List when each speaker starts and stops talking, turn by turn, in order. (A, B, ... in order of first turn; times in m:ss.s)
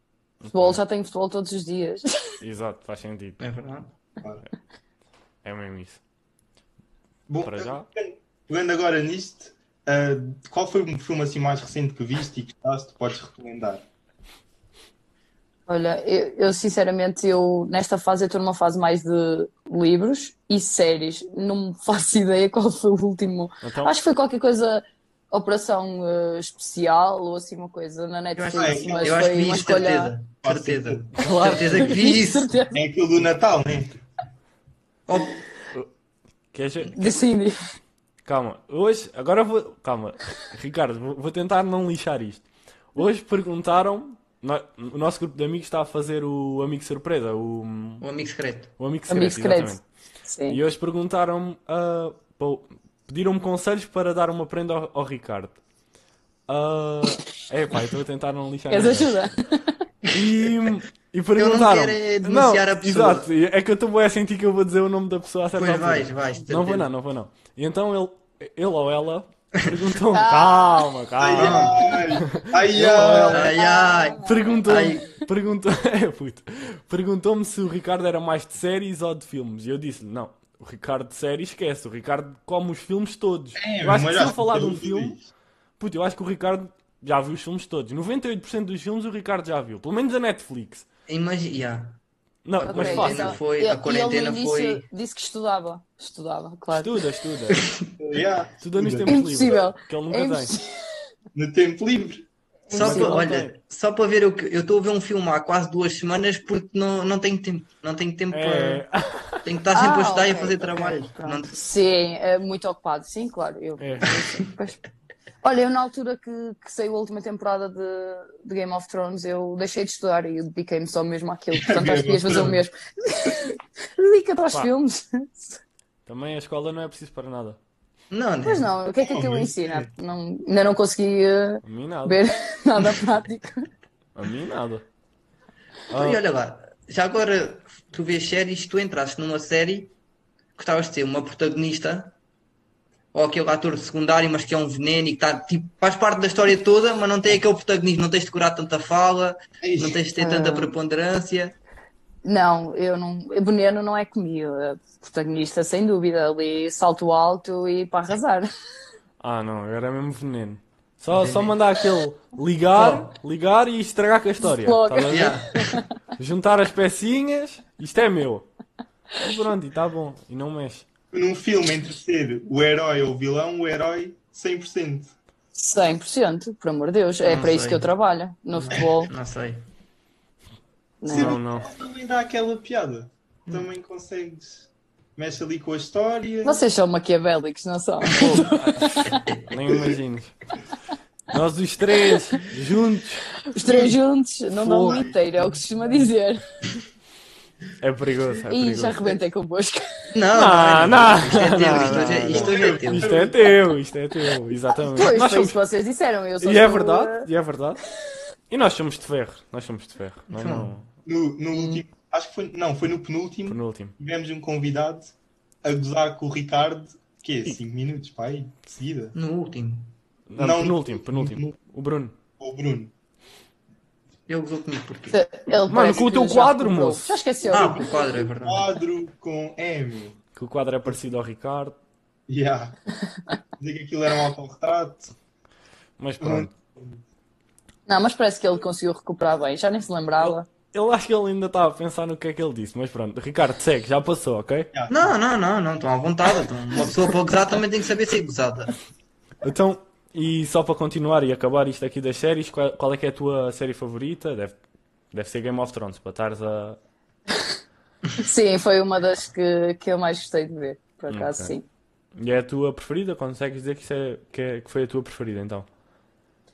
0:00.4-0:00.8 A
0:00.5-0:02.2 B
0:02.4-0:03.5 A
0:03.4-0:03.9 C
0:05.4-0:06.0 A
0:07.3-0:13.8 D
0:07.4-0:07.9 A
0:15.7-0:30.1 B
0:23.6-0:23.9 A
0:28.4-0:32.5 C
0:28.5-0:31.2 D
0:31.2-0:32.0 A
0:31.3-0:32.8 B
0:32.7-0:34.0 D
0:35.1-0:35.4 C
0:36.5-0:37.1 A
0:37.0-0:37.6 B
0:38.2-0:42.4 A
0:43.0-0:48.1 A
0:48.0-0:48.7 C
0:48.8-0:49.8 A
0:49.1-0:50.6 B
0:50.5-0:55.6 A
0:56.5-0:59.2 A
0:58.7-0:59.8 B
1:00.1-1:13.5 A
1:01.4-1:03.3 C
1:05.6-1:06.9 C
1:10.1-1:10.9 B
1:11.2-1:13.5 D
1:11.4-1:11.8 C
1:13.3-1:15.1 C
1:13.5-1:14.6 B
1:14.2-1:25.2 A
1:23.6-1:25.3 D
1:25.8-1:30.8 A
1:31.1-1:32.0 C
1:32.5-1:33.4 A
1:32.6-1:34.8 C
1:32.7-1:37.0 B
1:36.7-1:37.6 A
1:37.5-1:37.8 C
1:38.0-1:39.2 D
1:38.6-1:40.5 A
1:39.1-1:40.8 B
1:41.3-1:42.2 D
1:42.7-1:43.4 B
1:42.7-1:48.8 C
1:42.8-1:43.5 A
1:48.3-1:49.4 A
1:49.4-1:51.6 C
1:49.7-1:54.8 B
1:53.8-1:54.1 A
1:55.4-2:05.6 B
2:01.5-2:02.6 D
2:06.1-2:07.6 A
2:08.1-2:08.7 C
2:08.4-2:13.7 B
2:09.0-2:09.9 D
2:11.6-2:12.2 A
2:14.2-2:14.8 A
2:15.9-2:16.2 A
2:15.9-2:20.0 C
2:20.6-2:22.1 C
2:23.1-2:31.6 C
2:29.6-2:30.0 D
2:30.2-2:30.7 B
2:32.2-2:38.5 B
2:39.2-2:45.4 A
2:41.1-2:41.6 C
2:42.7-2:43.2 C
2:44.4-2:45.9 B
2:45.1-2:45.6 C
2:46.2-2:48.5 A
2:49.2-2:50.9 A
2:51.1-2:55.1 D
2:55.6-2:59.1 B
2:57.2-2:57.9 C
2:58.6-2:59.7 C
3:01.0-3:01.4 B
3:01.1-3:01.7 A
3:01.1-3:06.6 D
3:06.4-3:09.2 B
3:08.1-3:10.3 A
3:09.1-3:09.5 C
3:11.3-3:13.3 A
3:13.5-3:16.4 B
3:13.7-3:14.0 D
3:14.6-3:15.0 A
3:14.9-3:16.1 D
3:17.8-3:19.2 A
3:18.5-3:19.8 B
3:20.1-3:23.1 C
3:20.3-3:25.6 A
3:21.6-3:23.6 D
3:24.8-3:27.3 B
3:26.4-3:27.8 A
3:28.5-3:30.9 A
3:30.3-3:30.7 C
3:31.1-3:39.2 D
3:33.5-3:33.9 A
3:39.2-3:39.9 C
3:40.3-3:42.2 A
3:40.4-3:41.6 D
3:42.4-3:42.9 D
3:44.3-3:45.2 C
3:45.1-3:48.0 B
3:45.7-3:47.1 A
3:47.5-3:48.7 C
3:47.5-3:50.2 D
3:50.4-3:51.8 A
3:52.3-3:52.8 D
3:53.6-3:55.1 D
3:56.0-3:56.5 A
3:56.2-3:57.0 D
3:57.9-4:00.5 B
4:00.2-4:04.7 A
4:04.7-4:05.1 D
4:04.9-4:08.7 C
4:09.4-4:14.6 A
4:15.1-4:16.8 A
4:18.2-4:21.6 B
4:21.1-4:21.5 A
4:22.2-4:25.7 A